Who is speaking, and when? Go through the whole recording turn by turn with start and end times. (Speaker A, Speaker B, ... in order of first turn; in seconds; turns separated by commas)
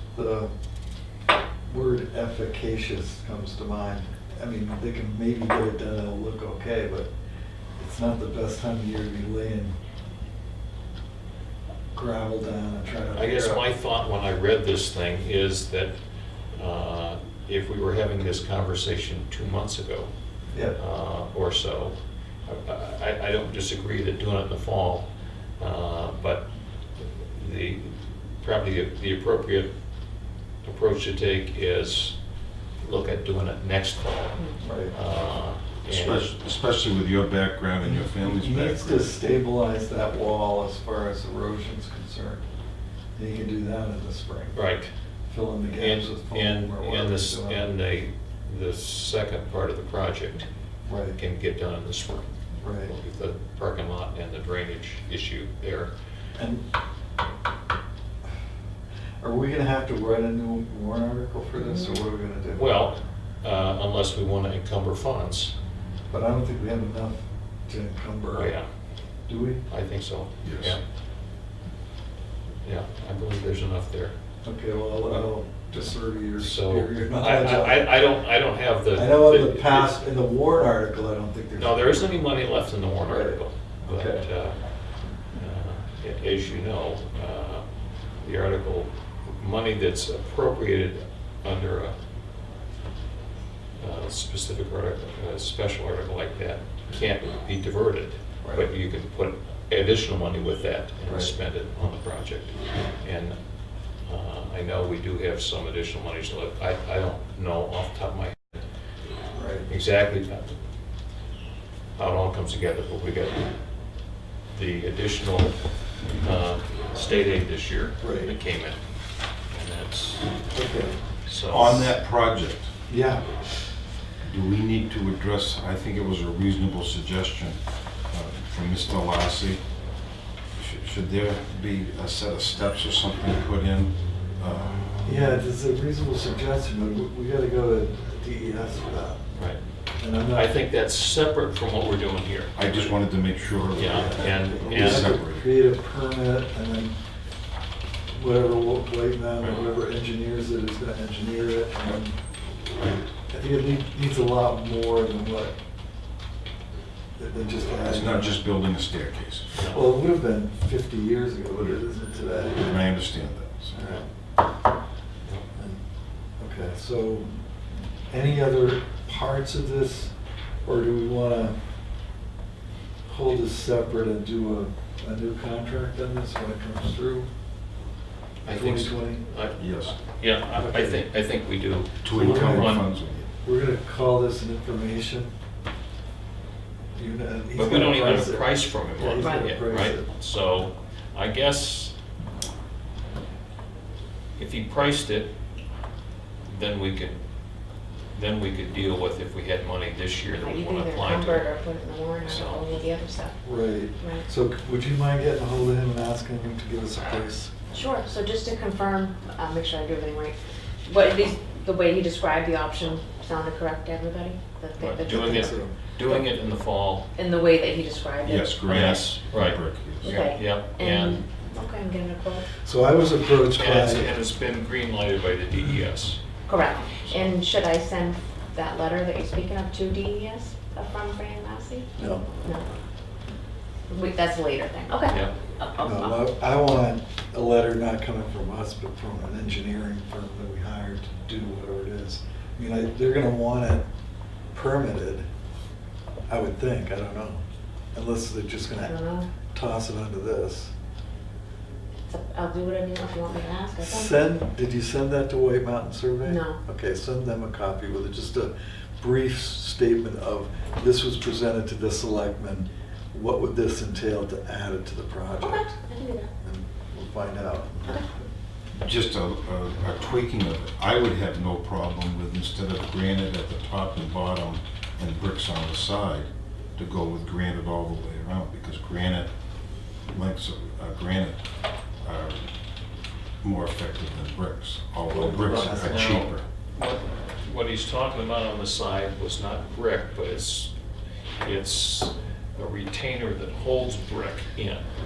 Speaker A: 0.1-0.5, Speaker A: 1.7-7.1, Speaker A: 7.8-9.8, Speaker A: 11.9-13.7, Speaker B: 13.2-15.9, Speaker B: 16.5-20.1, Speaker B: 20.8-29.7, Speaker B: 30.6-32.2, Speaker B: 32.8-34.4, Speaker A: 34.6-35.0, Speaker B: 34.9-36.3, Speaker C: 35.9-39.1, Speaker A: 37.8-42.5, Speaker A: 43.2-44.6, Speaker B: 44.5-44.9, Speaker A: 45.3-47.7, Speaker B: 45.7-50.5, Speaker A: 50.9-51.2, Speaker B: 51.1-55.9, Speaker A: 52.6-52.9, Speaker A: 56.4-56.6, Speaker A: 59.2-62.7, Speaker B: 62.5-65.5, Speaker A: 66.1-68.5, Speaker B: 68.3-68.7, Speaker A: 69.3-69.7, Speaker B: 69.7-70.8, Speaker C: 70.4-70.8, Speaker B: 72.6-74.2, Speaker A: 74.4-78.0, Speaker B: 76.4-80.0, Speaker A: 78.9-82.2, Speaker B: 81.6-84.6, Speaker A: 83.0-84.2, Speaker B: 85.3-87.7, Speaker B: 88.2-92.0, Speaker B: 93.8-103.4, Speaker B: 104.1-108.6, Speaker A: 109.3-109.7, Speaker B: 109.7-110.5, Speaker B: 112.0-113.5, Speaker B: 114.5-115.6, Speaker B: 116.2-118.8, Speaker A: 118.0-118.3, Speaker B: 119.5-120.3, Speaker A: 120.5-121.0, Speaker B: 121.3-121.9, Speaker C: 121.5-122.7, Speaker A: 122.9-123.4, Speaker C: 124.2-129.6, Speaker C: 130.6-134.9, Speaker A: 135.0-139.2, Speaker A: 140.0-140.6, Speaker B: 140.3-143.0, Speaker C: 142.6-145.5, Speaker B: 143.8-145.2, Speaker A: 143.9-146.9, Speaker A: 148.1-152.2, Speaker A: 153.3-155.5, Speaker A: 157.2-158.4, Speaker C: 157.8-159.5, Speaker B: 159.6-159.9, Speaker A: 159.7-162.8, Speaker C: 162.6-163.7, Speaker A: 163.7-164.1, Speaker A: 165.6-165.8, Speaker A: 166.4-167.3, Speaker A: 168.1-170.1, Speaker A: 170.7-171.6, Speaker A: 173.1-177.3, Speaker B: 178.4-182.8, Speaker A: 178.5-179.2, Speaker C: 179.6-180.0, Speaker A: 180.6-181.0, Speaker C: 182.0-183.3, Speaker A: 182.1-182.8, Speaker A: 183.4-185.3, Speaker A: 186.9-190.1, Speaker B: 187.6-191.9, Speaker D: 189.2-189.5, Speaker B: 194.4-195.3, Speaker B: 196.5-197.2, Speaker B: 198.1-201.5, Speaker D: 200.4-203.4, Speaker B: 202.2-202.7, Speaker A: 203.4-207.5, Speaker D: 204.0-204.3, Speaker D: 207.7-216.3, Speaker B: 214.8-217.1, Speaker A: 215.1-215.8, Speaker D: 217.2-219.0, Speaker C: 218.2-220.2, Speaker B: 218.7-221.3, Speaker D: 220.0-222.5, Speaker A: 222.6-224.2, Speaker B: 223.5-226.2, Speaker D: 226.5-232.7, Speaker A: 232.0-232.3, Speaker D: 233.9-236.2, Speaker B: 235.1-235.3, Speaker A: 235.8-243.8, Speaker A: 244.5-245.2, Speaker A: 246.3-247.4, Speaker A: 247.9-248.9, Speaker D: 248.8-249.3, Speaker A: 249.5-250.7, Speaker D: 252.1-254.2, Speaker A: 253.8-265.7, Speaker D: 256.2-256.6, Speaker D: 265.4-266.3, Speaker A: 266.4-268.2, Speaker C: 268.8-279.3, Speaker C: 280.1-281.5, Speaker C: 282.0-282.5, Speaker C: 283.4-286.4, Speaker A: 285.1-286.3, Speaker B: 285.2-290.7, Speaker B: 291.4-294.9